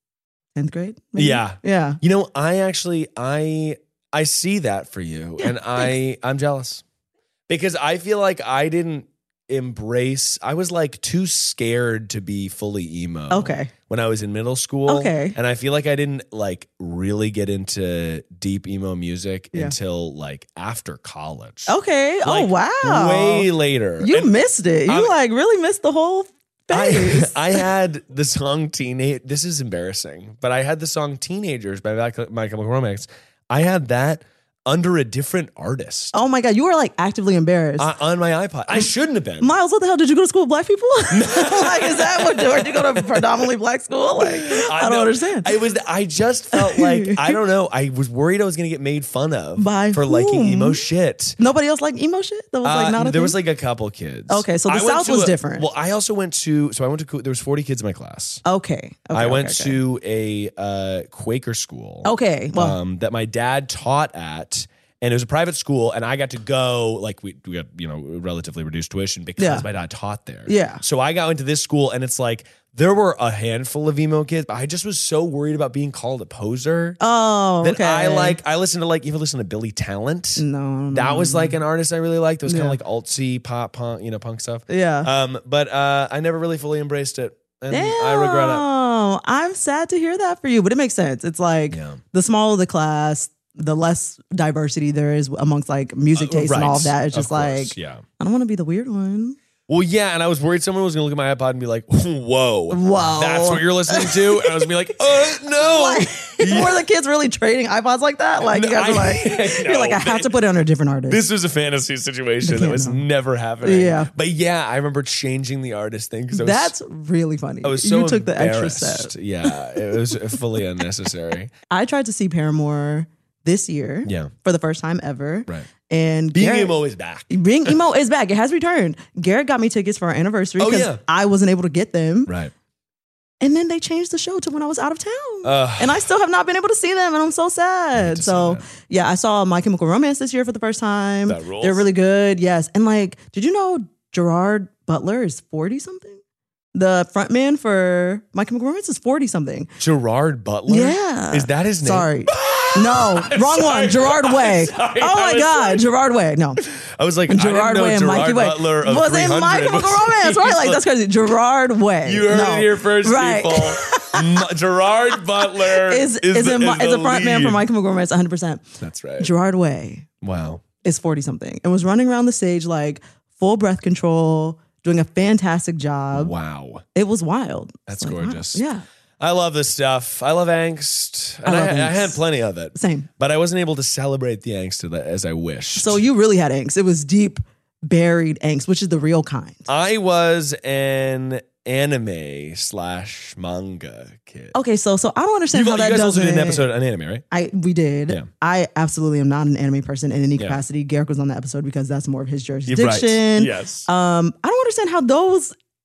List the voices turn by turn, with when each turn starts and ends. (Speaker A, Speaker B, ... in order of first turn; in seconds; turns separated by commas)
Speaker A: 0.6-2.0, Speaker B: 1.1-6.8, Speaker A: 5.4-5.8, Speaker B: 7.5-21.7, Speaker A: 13.3-13.7, Speaker A: 14.9-15.3, Speaker A: 21.7-23.5, Speaker B: 22.2-24.3, Speaker A: 24.0-27.6, Speaker B: 24.9-25.1, Speaker B: 26.7-36.1, Speaker A: 36.1-37.9, Speaker B: 37.8-39.5, Speaker A: 39.4-45.5, Speaker B: 41.1-43.3, Speaker B: 44.2-51.4, Speaker A: 46.5-47.4, Speaker A: 49.6-50.9, Speaker A: 51.4-53.4, Speaker B: 52.6-58.4, Speaker A: 54.3-55.7, Speaker A: 58.4-59.8, Speaker B: 59.1-77.0, Speaker A: 62.0-62.8, Speaker A: 69.4-69.7, Speaker A: 70.5-70.8, Speaker A: 77.0-78.4, Speaker B: 77.6-88.6, Speaker A: 80.4-81.6, Speaker A: 82.5-82.8, Speaker A: 84.7-85.1, Speaker A: 87.7-99.4, Speaker B: 91.7-92.0, Speaker B: 96.1-98.0, Speaker B: 99.7-106.8, Speaker A: 102.7-104.7, Speaker A: 105.3-111.2, Speaker B: 108.4-110.3, Speaker B: 111.1-116.7, Speaker A: 112.4-113.0, Speaker A: 113.6-114.1, Speaker A: 116.3-120.2, Speaker B: 117.6-121.5, Speaker A: 121.7-126.8, Speaker B: 124.0-124.3, Speaker B: 126.3-127.7, Speaker A: 127.3-132.3, Speaker B: 130.6-131.0, Speaker B: 132.3-132.5, Speaker A: 133.4-146.2, Speaker B: 135.4-136.1, Speaker B: 137.9-138.6, Speaker B: 141.2-141.8, Speaker A: 146.7-149.7, Speaker B: 149.8-155.8, Speaker A: 150.7-156.6, Speaker B: 156.7-160.8, Speaker A: 157.3-164.2, Speaker B: 162.0-167.6, Speaker A: 165.5-170.1, Speaker B: 168.8-169.3, Speaker B: 170.2-170.6, Speaker A: 170.8-176.3, Speaker B: 176.1-176.8, Speaker A: 176.9-178.8, Speaker B: 177.9-178.6, Speaker B: 179.2-186.0, Speaker A: 181.4-182.2, Speaker A: 182.7-183.1, Speaker A: 185.8-189.7, Speaker B: 189.7-194.6, Speaker A: 194.5-196.7, Speaker B: 195.5-197.2, Speaker A: 197.3-205.5, Speaker B: 200.4-200.6, Speaker B: 202.7-203.9